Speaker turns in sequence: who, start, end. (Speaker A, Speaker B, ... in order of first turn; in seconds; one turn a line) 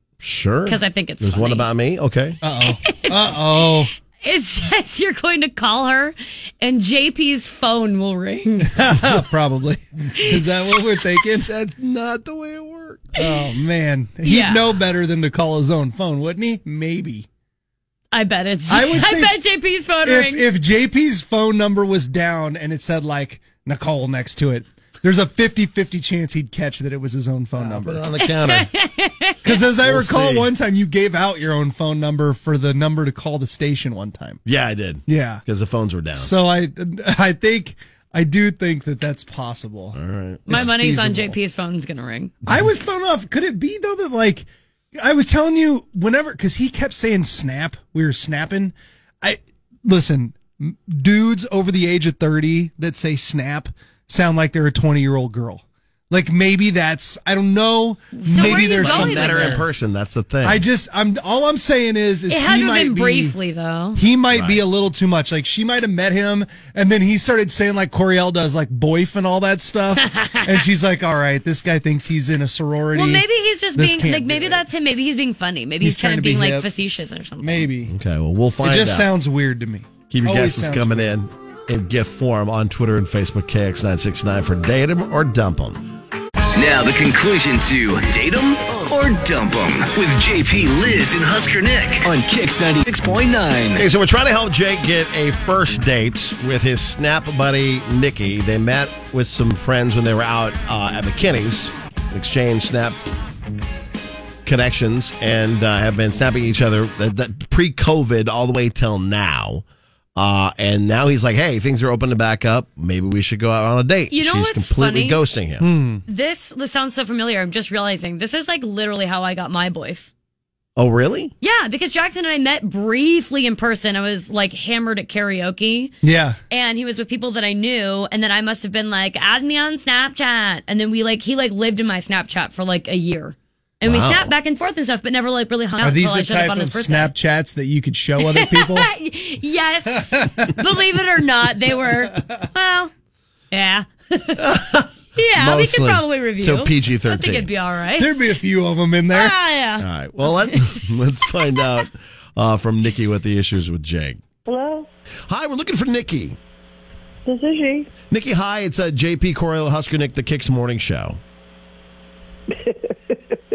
Speaker A: 0.2-2.4
Speaker B: 0.7-1.7
Speaker C: 2.4-3.9
Speaker B: 2.6-9.1
Speaker C: 8.6-11.5
Speaker B: 10.1-10.5
Speaker A: 11.4-13.1
Speaker C: 13.2-17.3
Speaker B: 14.2-14.7
Speaker B: 18.1-20.4
Speaker C: 18.7-19.4
Speaker C: 20.0-28.1
Speaker A: 27.6-28.7
Speaker B: 28.2-29.6
Speaker C: 29.4-34.4
Speaker A: 29.8-30.5
Speaker A: 34.4-36.3
Speaker C: 35.1-35.4
Speaker C: 36.1-40.0
Speaker A: 39.9-40.7
Speaker B: 40.5-42.3
Speaker C: 40.5-41.4
Speaker C: 42.5-59.7
Speaker B: 58.1-59.7
Speaker A: 58.4-60.6
Speaker C: 60.4-63.4
Speaker B: 62.3-64.0
Speaker C: 63.9-74.7
Speaker A: 64.3-64.6
Speaker B: 70.0-70.5
Speaker B: 72.9-77.7
Speaker C: 75.8-76.7
Speaker C: 77.4-77.9
Speaker A: 77.9-79.1
Speaker C: 78.6-81.1
Speaker A: 80.1-85.8
Speaker D: 86.5-93.8
Speaker A: 93.8-103.0
Speaker A: 104.4-109.6
Speaker A: 110.2-115.6
Speaker B: 114.1-115.2
Speaker C: 115.6-116.0
Speaker B: 116.1-120.1
Speaker A: 120.8-121.3
Speaker B: 121.4-125.9
Speaker C: 126.0-126.4
Speaker B: 126.5-137.1
Speaker A: 133.8-134.3
Speaker C: 135.8-138.9
Speaker B: 138.2-142.9
Speaker B: 143.5-144.6
Speaker A: 144.6-147.5
Speaker B: 145.1-148.2
Speaker C: 148.0-149.4
Speaker B: 149.1-150.8
Speaker A: 149.8-154.2
Speaker E: 154.4-154.9
Speaker A: 155.3-156.4
Speaker E: 157.2-157.9
Speaker A: 158.1-161.2
Speaker E: 162.5-163.4